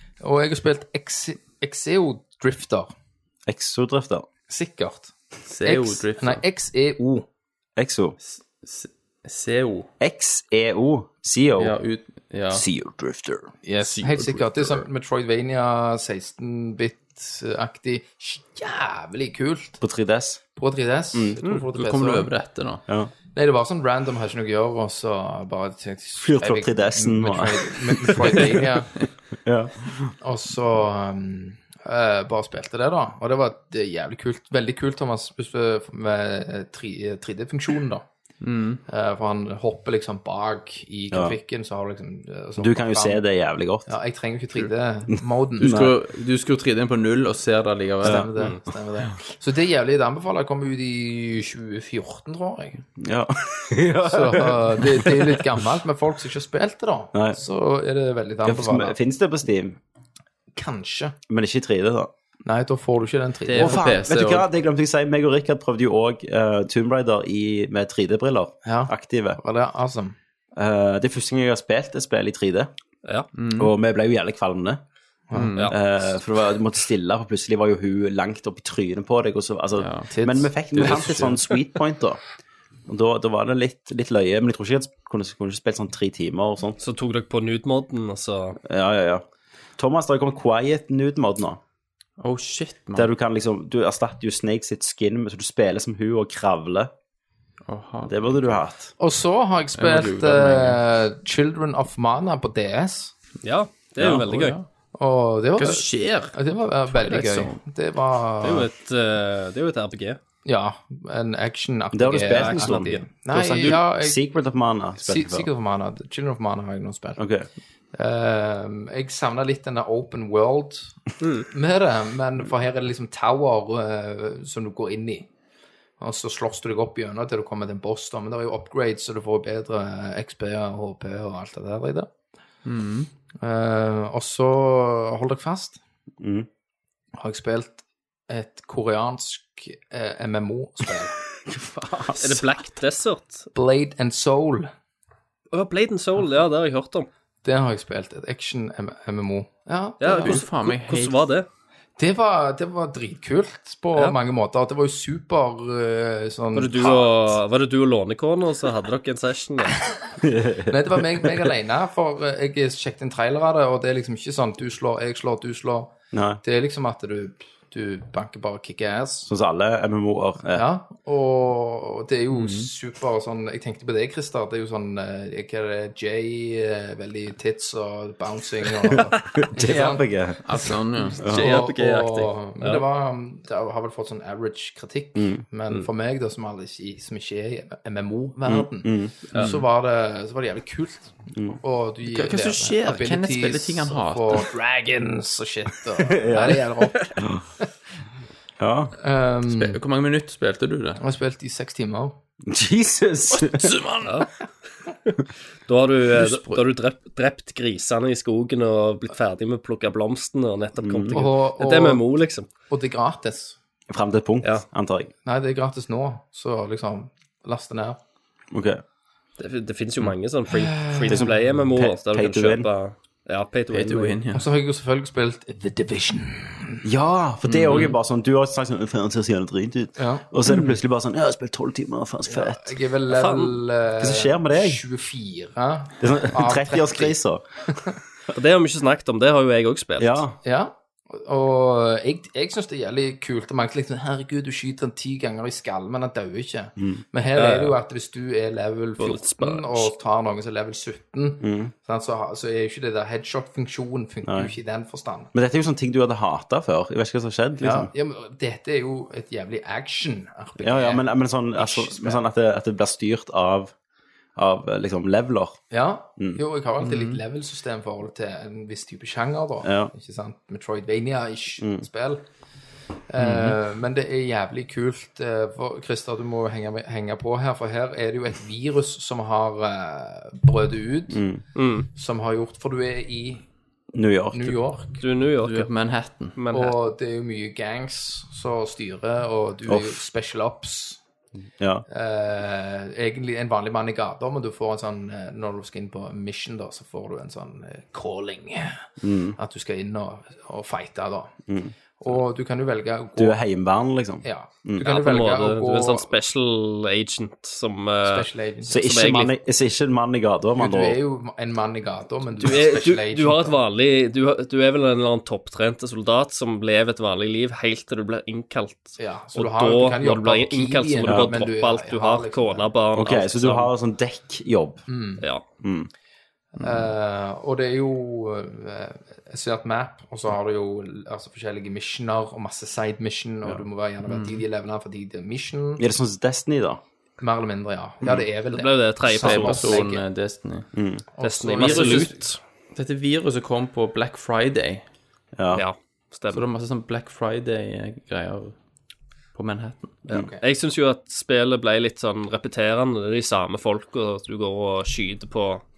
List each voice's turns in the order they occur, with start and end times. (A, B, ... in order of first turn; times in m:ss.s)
0:00.2-0:02.9 A
0:03.5-0:04.3 B
0:04.5-0:05.1 A
0:05.5-0:06.4 C
0:05.6-0:07.3 A
0:07.8-0:08.2 B
0:08.2-0:09.9 C
0:10.0-0:11.8 B
0:11.6-0:12.7 C
0:12.5-0:13.5 B
0:13.7-0:14.9 C
0:13.8-0:19.8 A
0:19.8-0:20.4 B
0:20.6-0:22.3 A
0:21.1-0:21.4 B
0:21.7-0:22.8 C
0:23.3-0:28.9 A
0:26.2-0:28.6 B
0:29.4-0:30.1 B
0:30.2-0:38.0 A
0:38.4-0:38.8 C
0:38.9-0:43.2 A
0:41.1-0:41.4 B
0:42.6-0:43.9 B
0:43.9-0:45.8 A
0:45.6-0:45.9 B
0:45.6-0:48.3 C
0:48.0-0:48.3 B
0:48.0-0:52.8 A
0:53.0-0:55.6 B
0:54.0-0:59.0 A
0:58.4-0:59.8 B
1:00.6-1:01.2 A
1:01.3-1:02.1 B
1:02.4-1:03.8 A
1:03.4-1:04.5 C
1:03.6-1:09.4 B
1:08.6-1:10.2 A
1:10.6-1:12.7 B
1:13.3-1:13.7 C
1:13.6-1:14.8 B
1:15.3-1:15.8 C
1:15.7-1:22.2 B
1:19.8-1:20.1 C
1:20.1-1:20.5 A
1:20.7-1:21.4 C
1:22.9-1:26.8 B
1:26.8-1:28.6 D
1:28.6-1:29.2 B
1:29.8-1:31.6 B
1:32.2-1:33.1 C
1:33.0-1:36.9 B
1:37.7-1:38.5 C
1:38.1-1:38.9 B
1:39.0-1:43.1 A
1:39.8-1:40.8 C
1:43.4-1:44.6 D
1:44.0-1:44.7 C
1:45.0-1:48.7 A
1:45.6-1:46.4 C
1:46.9-1:47.6 C
1:48.4-1:50.2 D
1:50.4-1:54.2 A
1:51.9-1:55.5 B
1:52.3-1:53.8 D
1:55.0-1:57.2 A
1:57.2-1:57.5 B
1:57.9-2:01.0 A
2:01.2-2:01.5 D
2:01.5-2:05.3 A
2:06.0-2:12.1 A
2:12.6-2:13.1 C
2:13.4-2:15.8 A
2:16.2-2:16.5 B
2:17.2-2:21.2 A
2:21.5-2:22.4 B
2:22.2-2:23.5 D
2:23.5-2:24.7 A
2:25.5-2:27.1 D
2:27.4-2:30.4 A
2:30.0-2:31.5 D
2:30.2-2:31.2 C
2:32.0-2:37.1 A
2:36.5-2:39.8 D
2:40.2-2:41.5 B
2:40.7-2:45.9 A
2:46.1-2:46.4 B
2:46.4-2:49.3 A
2:49.3-2:50.6 B
2:50.5-3:00.1 A
2:52.4-2:52.7 C
2:59.2-3:00.4 B
3:00.4-3:01.6 C
3:00.6-3:17.1 A
3:01.2-3:01.6 B
3:01.2-3:02.8 D
3:05.2-3:05.4 B
3:08.5-3:09.3 B
3:09.4-3:09.6 C
3:12.0-3:14.5 C
3:16.1-3:16.6 B
3:17.2-3:17.4 B
3:18.6-3:19.0 B
3:19.0-3:19.8 A
3:19.5-3:21.0 C
3:21.0-3:22.2 A
3:22.4-3:23.7 B
3:23.3-3:24.2 C
3:24.0-3:24.3 D
3:24.9-3:32.5 D
3:26.1-3:26.6 C
3:30.8-3:31.2 B
3:31.1-3:32.0 A
3:32.7-3:33.6 A
3:33.9-3:35.1 B
3:35.2-3:38.0 A
3:38.5-3:38.8 B
3:39.4-3:44.2 D
3:40.5-3:41.3 A
3:41.1-3:42.7 B
3:43.7-3:44.5 C
3:44.3-3:46.8 A
3:46.8-3:52.8 B
3:47.4-3:48.0 C
3:50.0-3:50.3 A
3:50.5-3:50.7 C
3:52.3-3:57.2 A
3:53.1-3:53.6 D
3:54.0-3:54.8 B
3:56.0-3:57.4 B
3:58.3-4:00.2 D
4:00.0-4:00.4 B
4:00.4-4:15.3 A
4:07.4-4:07.8 D
4:09.0-4:09.9 D
4:11.4-4:11.7 B
4:14.2-4:14.5 B
4:15.3-4:17.9 B
4:17.6-4:22.3 A
4:20.6-4:23.7 B
4:24.4-4:25.6 B
4:25.7-4:32.2 A
4:26.8-4:27.2 C
4:29.6-4:29.9 B
4:31.6-4:31.9 B
4:33.1-4:41.2 A
4:33.2-4:33.6 B
4:41.1-4:41.4 B
4:41.6-4:41.9 D
4:42.0-4:43.5 A
4:43.9-4:44.6 B
4:44.3-4:45.0 A
4:45.0-4:45.7 D
4:45.4-4:46.4 C
4:46.4-4:46.8 D
4:46.5-4:51.0 A
4:49.7-4:50.0 B
4:51.6-4:51.8 B
4:51.9-5:01.4 A
4:59.0-4:59.4 B
5:02.0-5:03.4 A
5:03.2-5:04.8 B
5:04.2-5:06.1 A
5:04.8-5:09.4 D
5:08.0-5:08.9 A
5:08.7-5:11.0 B
5:10.6-5:13.6 A
5:12.4-5:23.7 D
5:19.0-5:22.7 A
5:21.0-5:21.4 B
5:22.9-5:24.8 B
5:24.9-5:25.2 A
5:25.6-5:25.9 B
5:26.6-5:26.9 C
5:26.6-5:35.8 A
5:34.0-5:34.4 C
5:35.8-5:36.8 B
5:37.2-5:40.0 A
5:38.5-5:39.8 D
5:39.1-5:40.7 C
5:40.7-5:41.0 B
5:41.2-5:42.2 A
5:41.2-5:42.4 D
5:41.5-5:42.2 C
5:42.7-5:44.8 C
5:45.4-5:45.6 B
5:45.5-5:46.4 D
5:46.3-5:48.6 C
5:49.3-5:50.0 C
5:50.1-5:50.4 A
5:50.4-5:55.6 D